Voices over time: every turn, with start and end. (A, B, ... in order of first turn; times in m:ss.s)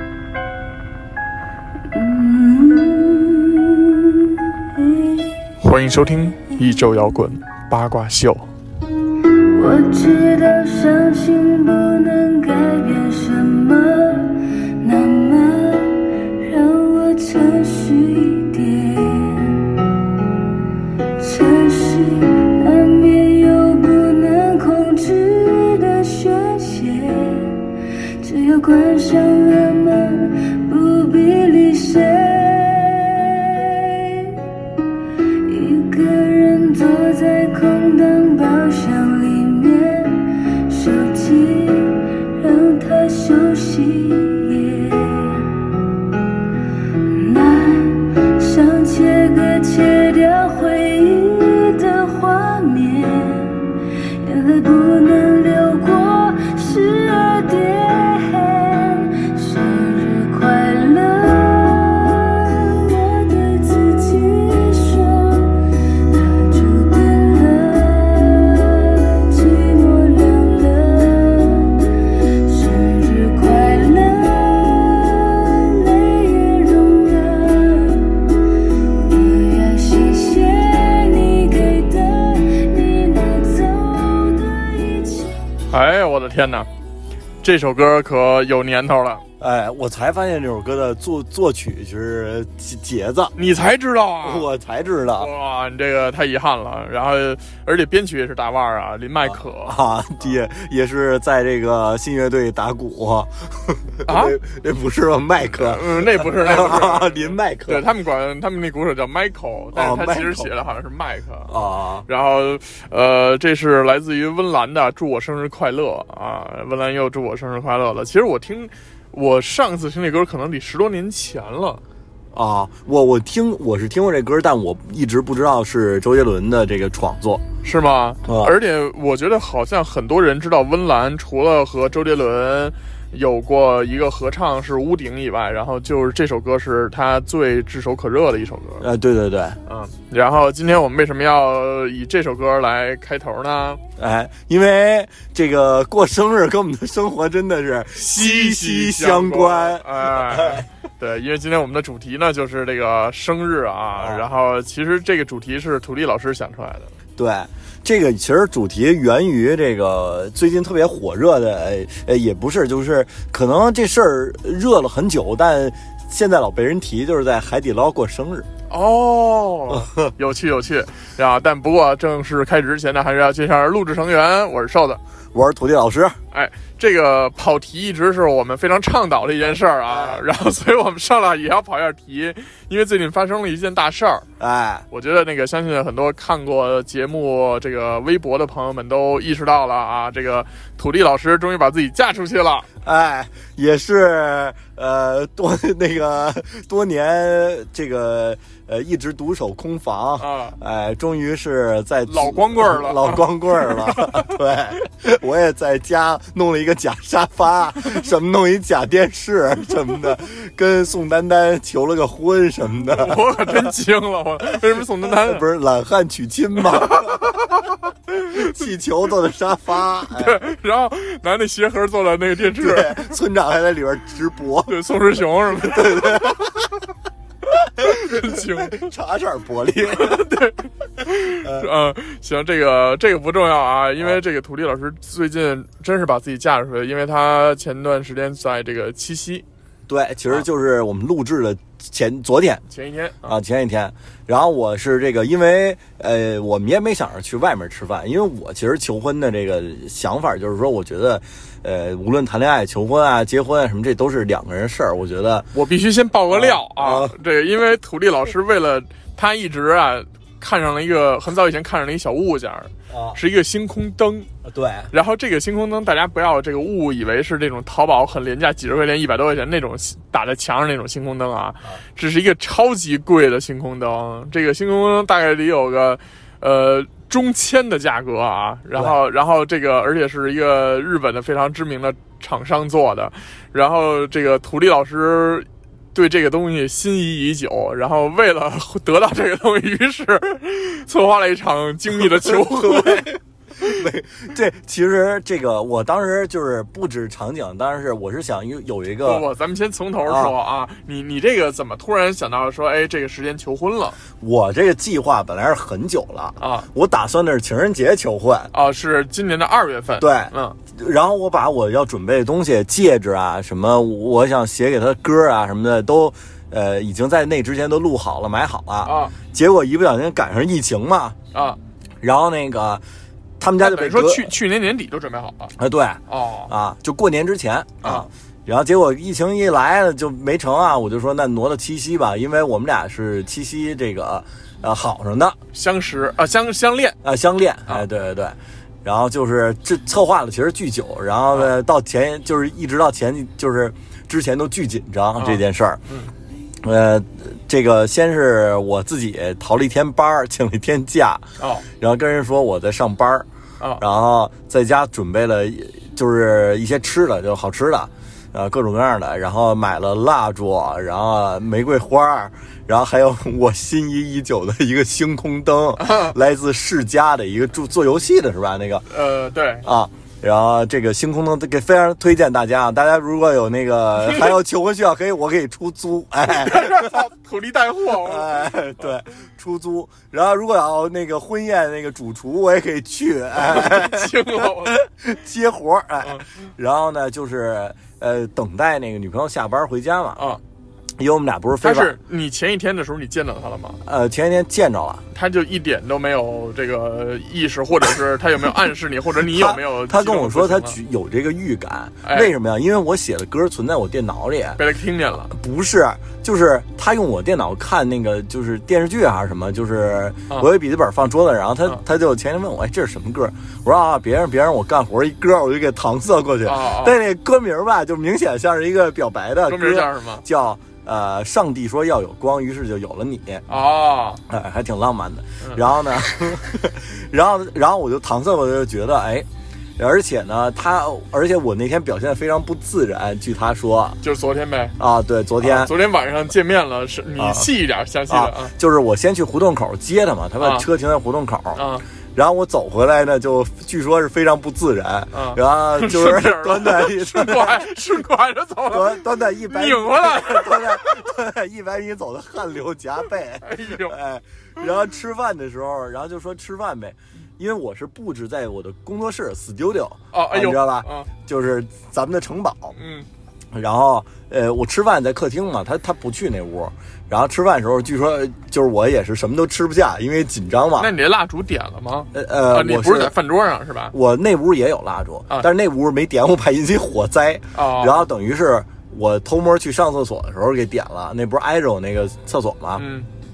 0:01.9-0:05.4 A
0:05.6-0:08.5 B
0:09.4-0:19.8 A
0:21.2-0:34.4 A
0:35.4-0:45.7 A
0:47.0-1:25.4 A
1:25.7-1:26.7 B
1:27.4-1:29.2 B
1:29.4-1:33.4 C
1:33.4-1:34.5 B
1:34.2-1:35.3 C
1:35.2-1:39.8 B
1:39.3-1:47.8 C
1:44.1-1:44.4 B
1:45.5-1:51.5 B
1:49.8-1:50.5 C
1:51.5-1:52.0 C
1:52.0-2:01.8 B
2:02.3-2:07.4 C
2:07.6-2:18.8 B
2:08.2-2:08.5 C
2:18.8-2:19.6 C
2:19.7-2:23.8 B
2:24.0-2:30.6 C
2:28.0-2:36.9 B
2:34.0-2:34.2 C
2:37.2-2:48.5 C
2:48.7-2:55.0 B
2:49.7-2:50.1 C
2:55.3-2:56.2 C
2:56.3-3:04.3 B
3:04.4-3:04.8 C
3:04.9-3:12.7 B
3:12.8-3:33.7 C
3:20.2-3:20.6 B
3:22.1-3:24.4 B
3:32.8-3:35.4 B
3:35.0-3:37.5 C
3:36.8-3:37.6 B
3:38.1-3:40.4 C
3:40.1-3:43.1 B
3:42.5-3:44.8 C
3:44.7-3:46.4 B
3:45.6-3:46.7 C
3:47.8-3:50.3 C
3:47.8-3:48.8 B
3:49.8-3:59.4 B
3:51.3-3:51.7 C
3:59.9-4:02.6 C
4:02.7-4:03.4 B
4:03.2-4:15.5 C
4:15.5-4:24.3 B
4:16.3-4:17.1 C
4:22.9-4:23.2 C
4:24.4-4:24.9 C
4:24.9-4:53.1 B
4:52.0-4:59.2 C
4:59.0-5:04.0 B
5:00.1-5:00.3 C
5:04.2-5:08.5 C
5:06.4-5:06.7 B
5:08.5-5:10.6 B
5:10.0-5:21.2 C
5:18.8-5:19.2 B
5:21.3-5:21.6 B
5:22.0-5:22.8 C
5:23.4-5:24.3 C
5:23.6-5:25.6 B
5:25.6-5:35.4 C
5:26.1-5:26.5 B
5:27.8-5:28.1 B
5:35.5-5:37.0 B
5:37.0-5:45.8 C
5:45.2-5:46.1 B
5:46.6-5:51.2 C
5:51.4-5:51.7 B
5:51.8-5:53.3 C
5:53.8-6:08.9 C
6:05.8-6:06.2 B
6:08.9-6:09.7 B
6:09.6-6:17.0 C
6:14.0-6:14.4 B
6:16.3-6:18.9 B
6:18.0-6:30.2 C
6:23.4-6:24.8 B
6:30.2-6:30.4 B
6:31.0-6:32.0 C
6:31.6-6:33.8 B
6:33.8-6:35.0 C
6:35.1-6:40.8 B
6:39.3-6:44.6 C
6:42.0-6:42.3 B
6:44.6-6:45.3 B
6:45.3-7:03.5 C
6:56.4-6:57.0 B
6:59.5-7:00.2 B
7:03.5-7:04.2 B
7:04.3-7:09.3 C
7:09.8-7:14.0 C
7:14.0-7:14.8 B
7:14.8-7:15.7 C
7:15.4-7:18.5 B
7:17.2-7:17.5 C
7:18.1-7:21.6 C
7:20.4-7:20.7 B
7:21.6-7:21.8 B
7:22.2-7:27.8 C
7:25.1-7:31.0 B
7:28.7-7:42.8 C
7:33.4-7:34.0 B
7:40.1-7:41.1 B
7:42.8-7:43.1 B
7:43.5-7:50.9 C
7:50.8-7:53.9 B
7:52.1-7:53.2 C
7:53.9-8:02.9 C
7:57.5-7:58.1 B
8:02.8-8:03.1 B